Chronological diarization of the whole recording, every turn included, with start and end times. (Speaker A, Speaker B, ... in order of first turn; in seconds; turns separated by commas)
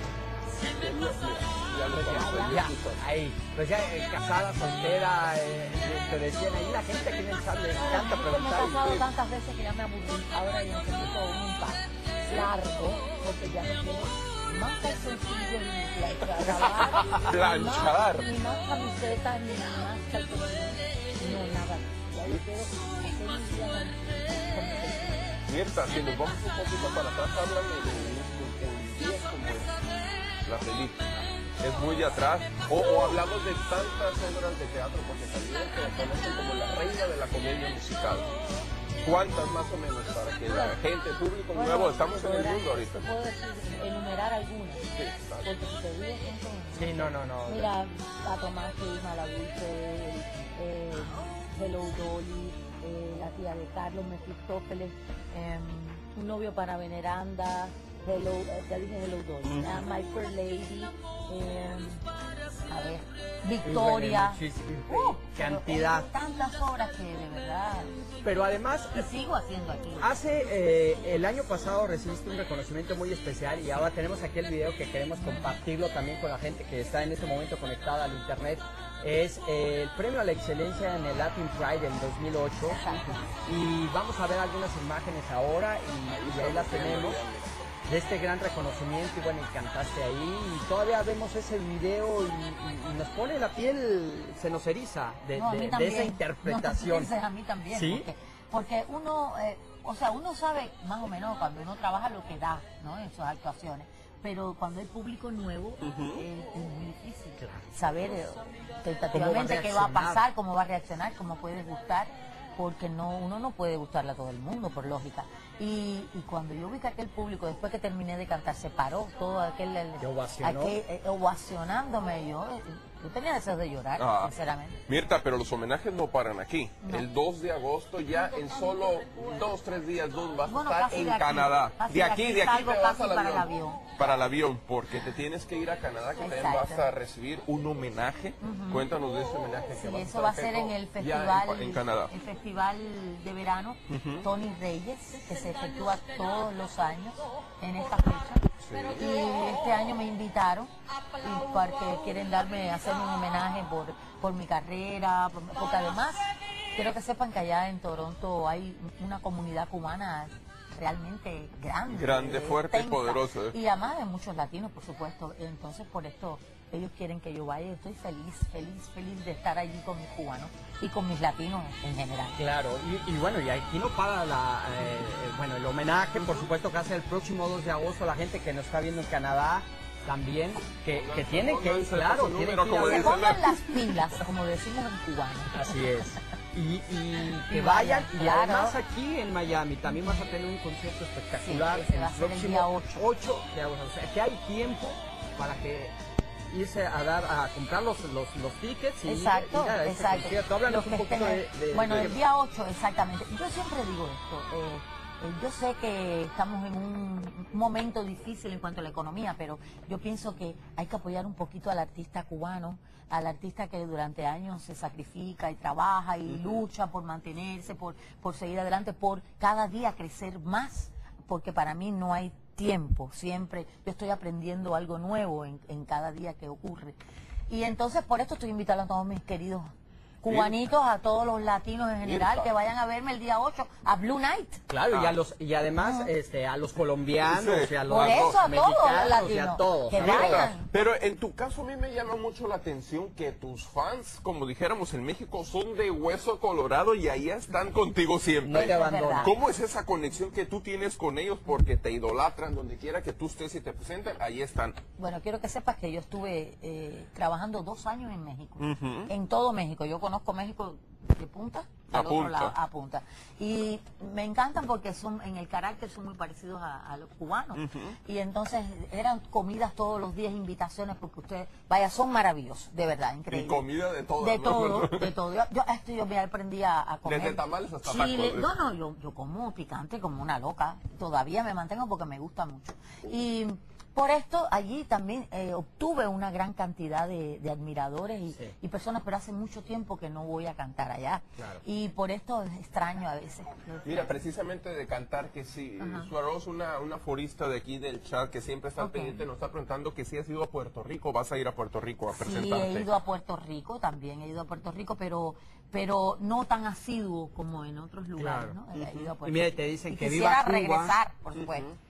Speaker A: 0.6-3.0, Speaker B: 1.9-8.8, Speaker C: 2.0-2.6, Speaker C: 7.7-25.4, Speaker A: 8.5-9.1, Speaker A: 17.0-18.3, Speaker A: 25.4-29.9, Speaker A: 30.4-38.4, Speaker A: 39.0-43.0, Speaker C: 40.5-40.8, Speaker C: 41.5-44.9, Speaker A: 44.9-45.5, Speaker C: 45.4-62.0, Speaker B: 46.7-47.7, Speaker B: 59.4-59.8, Speaker C: 62.7-68.0, Speaker B: 63.6-66.1, Speaker B: 68.2-69.0, Speaker C: 68.9-70.2, Speaker B: 70.0-82.8, Speaker C: 75.2-75.6, Speaker C: 82.6-83.2, Speaker B: 83.4-87.2, Speaker A: 86.0-87.7, Speaker B: 87.9-97.1, Speaker C: 95.3-124.8, Speaker B: 97.7-98.1, Speaker A: 105.8-106.2, Speaker B: 109.1-110.2, Speaker B: 120.0-120.8, Speaker A: 124.0-124.3, Speaker A: 124.9-142.1, Speaker C: 126.8-127.1, Speaker C: 130.4-133.8, Speaker C: 136.2-136.9, Speaker C: 138.4-138.9, Speaker C: 139.7-172.4, Speaker A: 143.9-144.2, Speaker A: 148.6-149.1, Speaker A: 161.9-163.6, Speaker B: 172.4-183.2, Speaker A: 176.2-176.4, Speaker A: 180.9-184.2, Speaker C: 182.8-186.1, Speaker B: 185.5-195.9, Speaker C: 187.3-188.8, Speaker C: 189.9-190.2, Speaker C: 191.4-193.1, Speaker B: 196.5-202.2, Speaker C: 199.0-226.9, Speaker C: 227.5-229.7, Speaker C: 230.2-234.6, Speaker A: 230.2-230.6, Speaker A: 232.0-232.5, Speaker B: 234.7-240.5, Speaker A: 234.9-235.2, Speaker C: 235.8-236.1, Speaker A: 237.2-238.4, Speaker C: 237.9-240.7, Speaker A: 239.9-254.8, Speaker B: 248.4-249.3, Speaker C: 248.6-249.3, Speaker C: 255.0-273.6, Speaker A: 258.6-259.1, Speaker A: 261.9-262.5, Speaker A: 267.6-267.9, Speaker A: 273.3-275.1, Speaker C: 274.2-294.1, Speaker A: 277.0-278.5, Speaker B: 291.4-291.6, Speaker A: 293.8-302.9, Speaker C: 295.8-296.1, Speaker C: 298.8-299.2, Speaker C: 302.1-311.7, Speaker B: 308.2-308.6, Speaker B: 309.2-310.9, Speaker A: 311.4-311.6